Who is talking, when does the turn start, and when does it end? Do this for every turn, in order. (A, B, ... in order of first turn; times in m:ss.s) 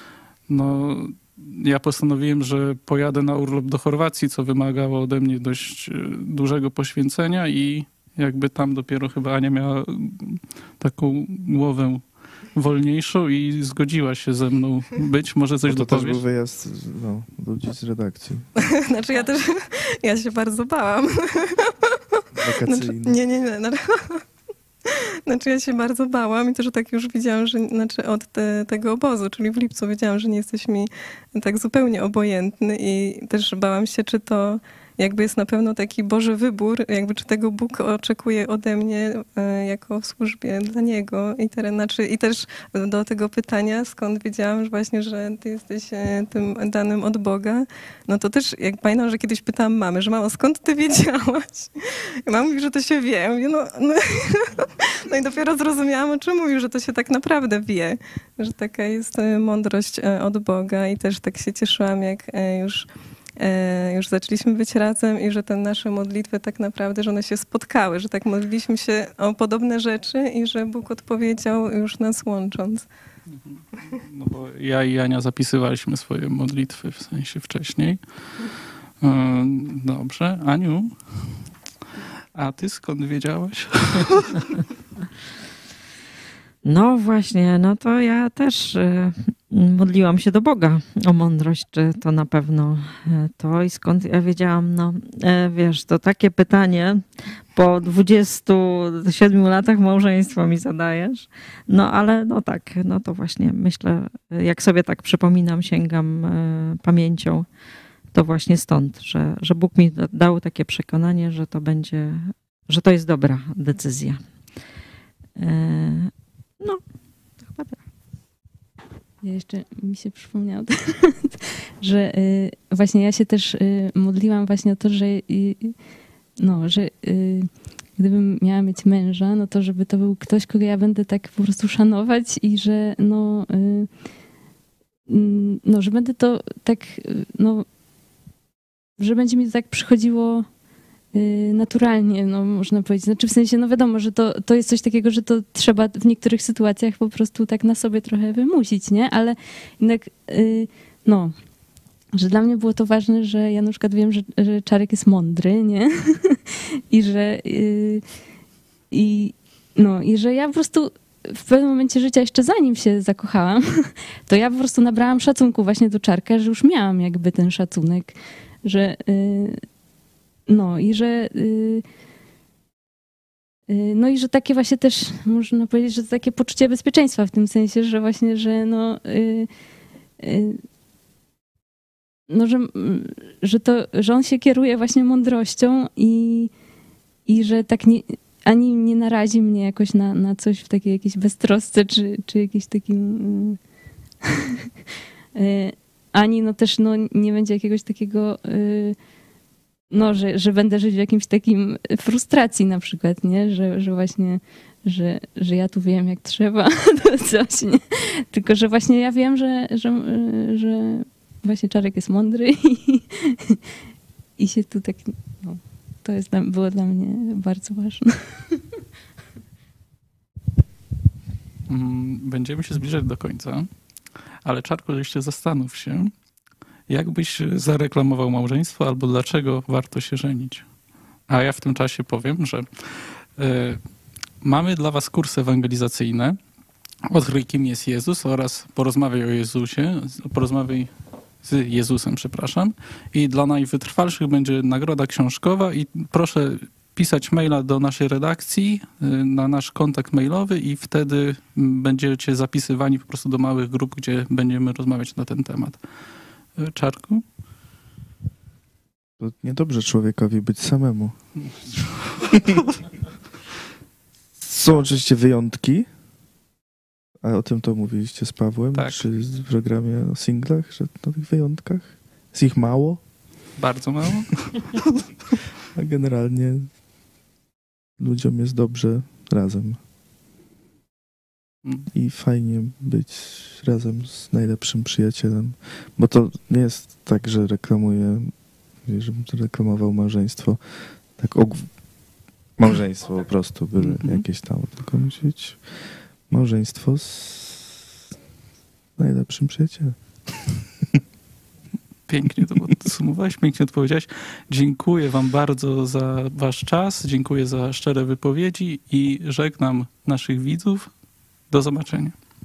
0:00.5-0:16.2 A
0:15.6-0:18.5 B
0:18.6-0:24.2 C
0:22.4-0:23.2 B
0:24.8-0:51.7 C
0:52.2-1:02.9 C
1:03.4-1:12.9 C
1:13.3-1:18.0 A
1:19.0-1:21.2 A
1:22.3-1:24.6 A
1:26.6-1:47.4 D
1:48.1-1:54.2 D
1:55.4-1:56.8 D
1:57.4-1:57.8 D
1:59.2-2:05.8 E
2:06.4-2:13.9 E
2:15.1-2:17.6 E
2:19.0-2:20.5 E
2:21.1-2:31.3 E
2:32.1-2:38.0 E
2:38.9-2:49.6 E
2:50.5-2:51.8 E
2:53.7-2:59.5 E
3:00.2-3:00.6 E
3:02.3-3:06.5 E
3:07.3-3:13.6 E
3:15.4-3:19.0 E
3:19.9-3:33.6 E
3:34.4-3:38.6 E
3:41.7-3:43.7 A
3:44.4-3:46.1 A
3:46.9-3:50.6 A
3:51.3-3:53.8 A
3:54.4-3:56.4 A
3:57.1-4:00.9 A
4:01.4-4:15.8 A
4:16.6-4:17.2 A
4:19.2-4:21.2 B
4:22.2-4:22.6 B
4:24.4-4:25.9 B
4:27.2-4:33.0 B
4:28.7-4:29.0 A
4:33.6-4:34.9 A
4:35.7-4:36.7 B
4:38.0-4:39.8 B
4:41.9-4:51.8 B
4:52.6-4:57.8 B
4:53.8-4:54.2 A
4:59.0-5:01.0 B
5:02.1-5:10.9 A
5:11.5-5:12.1 A